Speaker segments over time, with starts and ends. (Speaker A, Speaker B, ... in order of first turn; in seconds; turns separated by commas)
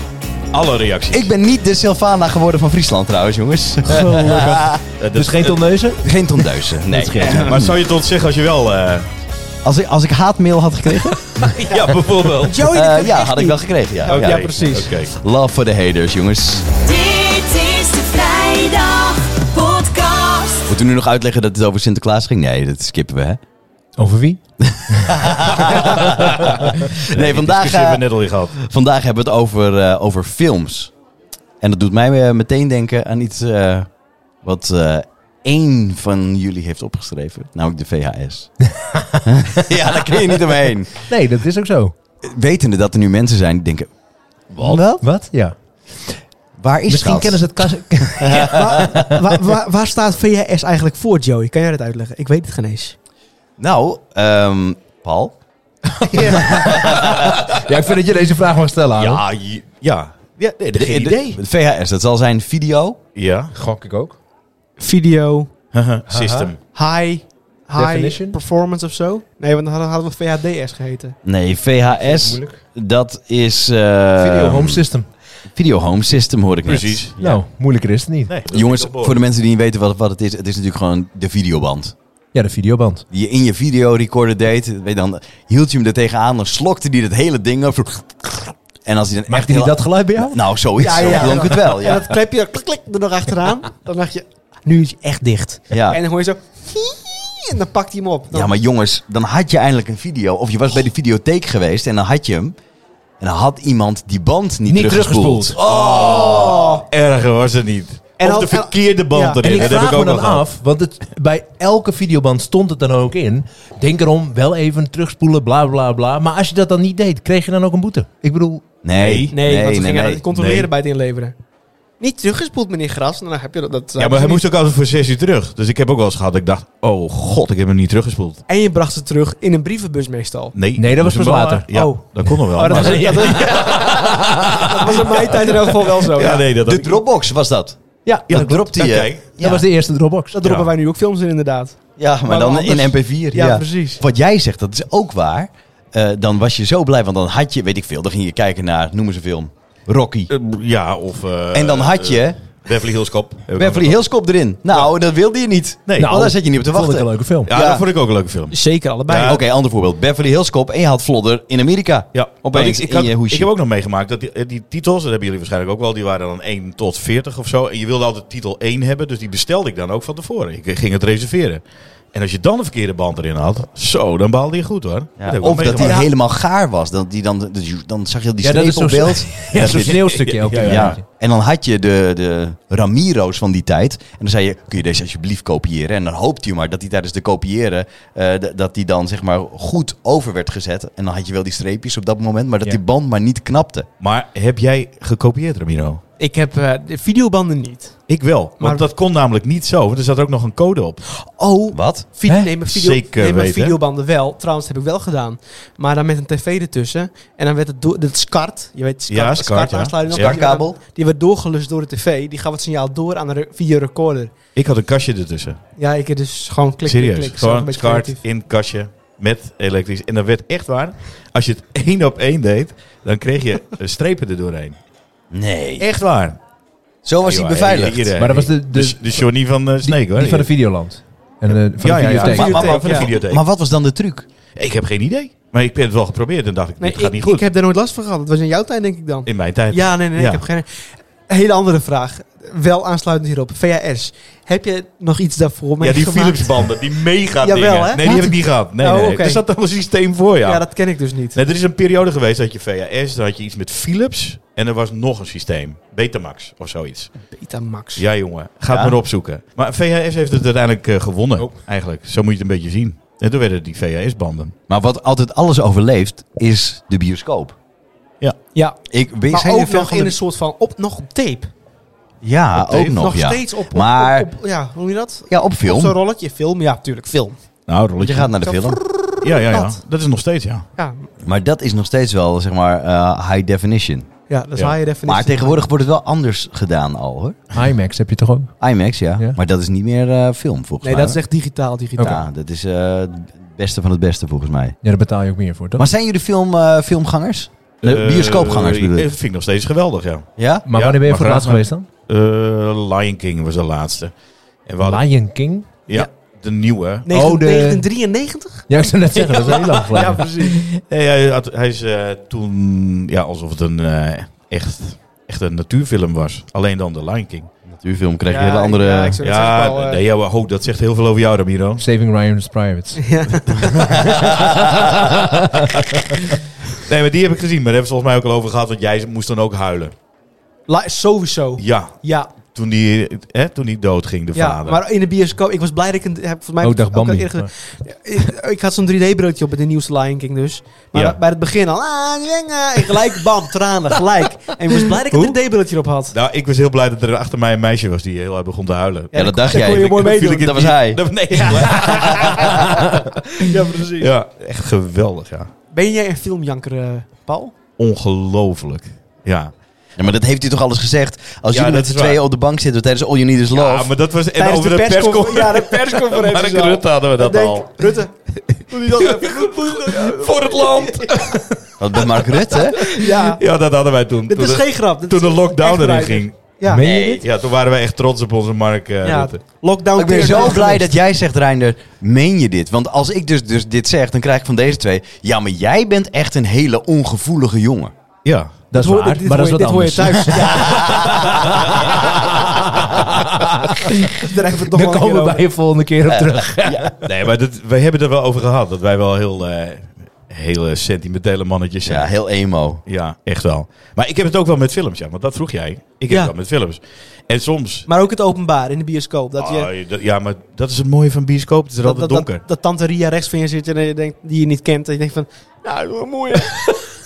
Speaker A: 0.5-1.3, Speaker B: 1.1-4.8, Speaker C: 4.0-4.6, Speaker A: 4.0-5.6, Speaker C: 5.1-6.0, Speaker B: 6.0-7.8, Speaker C: 6.8-7.6, Speaker A: 7.2-9.1, Speaker B: 9.6-11.6, Speaker D: 11.6-15.0, Speaker A: 11.7-12.7, Speaker B: 12.7-14.5, Speaker A: 14.1-15.1, Speaker B: 15.0-16.7, Speaker E: 16.8-20.7, Speaker B: 20.7-23.4, Speaker C: 24.0-25.7, Speaker B: 24.7-30.9, Speaker A: 25.8-28.5, Speaker B: 31.6-38.5, Speaker C: 38.8-39.0, Speaker B: 39.2-41.1, Speaker C: 41.1-41.9, Speaker B: 42.2-43.9, Speaker B: 44.5-45.0, Speaker C: 44.6-46.2, Speaker B: 46.6-49.0, Speaker C: 46.9-49.4, Speaker D: 48.3-53.0, Speaker B: 53.6-55.3, Speaker C: 56.0-59.2, Speaker B: 56.1-57.4, Speaker A: 59.0-61.4, Speaker B: 60.7-63.0, Speaker A: 63.1-63.5, Speaker C: 63.5-64.2, Speaker D: 64.8-65.5, Speaker A: 65.7-66.6, Speaker C: 66.1-66.5, Speaker D: 66.7-71.2, Speaker C: 67.7-68.4, Speaker B: 71.2-74.8, Speaker C: 71.9-72.6, Speaker C: 74.2-75.1, Speaker B: 75.5-77.4, Speaker A: 76.6-77.2, Speaker C: 77.2-78.3, Speaker A: 78.3-79.2, Speaker B: 78.5-82.0, Speaker C: 82.3-83.0, Speaker B: 83.1-92.1, Speaker C: 89.3-91.2, Speaker D: 90.8-98.5, Speaker B: 95.7-96.0, Speaker B: 98.3-102.5, Speaker B: 103.2-106.5, Speaker C: 104.7-105.6, Speaker A: 105.6-110.5, Speaker D: 105.6-106.8, Speaker D: 108.2-110.0, Speaker C: 109.4-118.7, Speaker B: 118.8-120.2, Speaker A: 119.0-119.3, Speaker D: 119.3-121.3, Speaker A: 120.3-120.7, Speaker D: 122.0-124.4, Speaker A: 124.0-128.4, Speaker D: 128.5-130.6, Speaker A: 130.5-134.4, Speaker C: 130.8-135.2, Speaker D: 131.7-132.0, Speaker D: 132.5-136.5, Speaker A: 135.3-136.9, Speaker B: 136.4-139.6, Speaker A: 138.3-139.2, Speaker C: 139.4-140.4, Speaker D: 140.3-144.0, Speaker A: 140.4-140.7, Speaker B: 142.0-150.3, Speaker A: 150.3-154.0, Speaker B: 151.5-152.4, Speaker B: 153.5-157.8, Speaker A: 155.9-156.1, Speaker C: 156.0-157.5, Speaker A: 157.5-159.4, Speaker D: 158.5-159.4, Speaker B: 159.2-163.5, Speaker A: 162.1-176.0, Speaker B: 175.2-193.9, Speaker D: 175.7-176.1, Speaker C: 178.4-181.0, Speaker A: 179.5-181.0, Speaker A: 194.0-196.0, Speaker D: 196.2-198.0, Speaker A: 198.1-201.0, Speaker D: 198.6-198.8, Speaker D: 201.2-214.3, Speaker B: 201.7-202.1, Speaker C: 202.2-202.5, Speaker A: 202.7-203.8, Speaker A: 209.1-210.4, Speaker B: 210.1-210.8, Speaker A: 214.5-215.6, Speaker D: 215.8-218.2, Speaker A: 216.8-224.8, Speaker B: 225.3-225.9, Speaker A: 225.8-226.4, Speaker B: 227.0-228.2, Speaker A: 227.2-230.5, Speaker C: 228.2-229.2, Speaker C: 229.8-232.6, Speaker A: 231.8-233.4, Speaker B: 232.2-234.2, Speaker D: 232.2-233.1, Speaker A: 234.6-237.4, Speaker D: 236.8-240.7, Speaker A: 239.2-240.4, Speaker D: 241.3-246.6, Speaker A: 245.8-250.8, Speaker D: 247.4-249.4, Speaker D: 250.4-251.4, Speaker A: 251.3-257.2, Speaker D: 257.3-258.0, Speaker A: 257.9-264.5, Speaker B: 258.7-259.0, Speaker B: 264.7-267.5, Speaker D: 268.5-271.5, Speaker B: 268.9-270.1, Speaker B: 272.2-274.3, Speaker D: 272.7-277.4, Speaker B: 275.3-275.9, Speaker A: 277.7-278.3, Speaker B: 278.0-278.8, Speaker D: 278.4-279.8, Speaker A: 279.2-280.6, Speaker D: 280.8-281.1, Speaker B: 281.2-284.1, Speaker D: 284.3-285.7, Speaker B: 285.1-287.4, Speaker C: 287.5-288.5, Speaker B: 288.6-291.2, Speaker D: 290.8-292.2, Speaker C: 291.9-292.2, Speaker B: 292.0-294.8, Speaker C: 294.8-295.9, Speaker B: 295.8-299.1, Speaker A: 297.8-304.1, Speaker B: 300.4-300.6, Speaker C: 300.6-301.9, Speaker A: 304.6-305.3, Speaker C: 304.8-305.7, Speaker A: 305.9-307.1, Speaker D: 307.1-310.6, Speaker C: 307.1-307.9, Speaker C: 308.7-310.2, Speaker A: 309.6-317.5, Speaker B: 317.7-319.2, Speaker D: 318.3-320.0, Speaker A: 319.2-321.8, Speaker C: 321.8-323.0, Speaker D: 323.0-324.3, Speaker C: 323.9-325.6, Speaker A: 326.7-329.9, Speaker D: 330.7-332.3, Speaker A: 331.6-334.8, Speaker D: 334.3-346.1, Speaker C: 336.6-337.5, Speaker A: 345.1-345.4, Speaker A: 346.1-352.9, Speaker D: 349.1-350.6, Speaker B: 349.1-351.0, Speaker D: 351.3-354.1, Speaker A: 354.0-355.5, Speaker D: 355.7-357.5, Speaker A: 357.8-359.5, Speaker B: 360.0-363.9, Speaker A: 361.5-362.2, Speaker A: 363.5-367.8, Speaker D: 364.4-368.1, Speaker A: 368.5-372.1, Speaker D: 368.8-371.2, Speaker B: 371.8-372.8, Speaker D: 372.5-373.4, Speaker A: 372.8-379.4, Speaker D: 374.3-376.8, Speaker C: 376.6-377.2, Speaker B: 376.8-377.2, Speaker D: 379.0-380.9, Speaker B: 379.9-387.9, Speaker A: 388.2-388.6, Speaker C: 388.7-397.0, Speaker D: 388.7-391.4, Speaker B: 390.8-391.4, Speaker D: 394.1-395.4, Speaker B: 396.1-396.9, Speaker A: 397.0-402.1, Speaker B: 401.8-402.8, Speaker A: 402.8-407.9, Speaker D: 407.9-409.7, Speaker A: 409.4-412.4, Speaker D: 411.8-416.9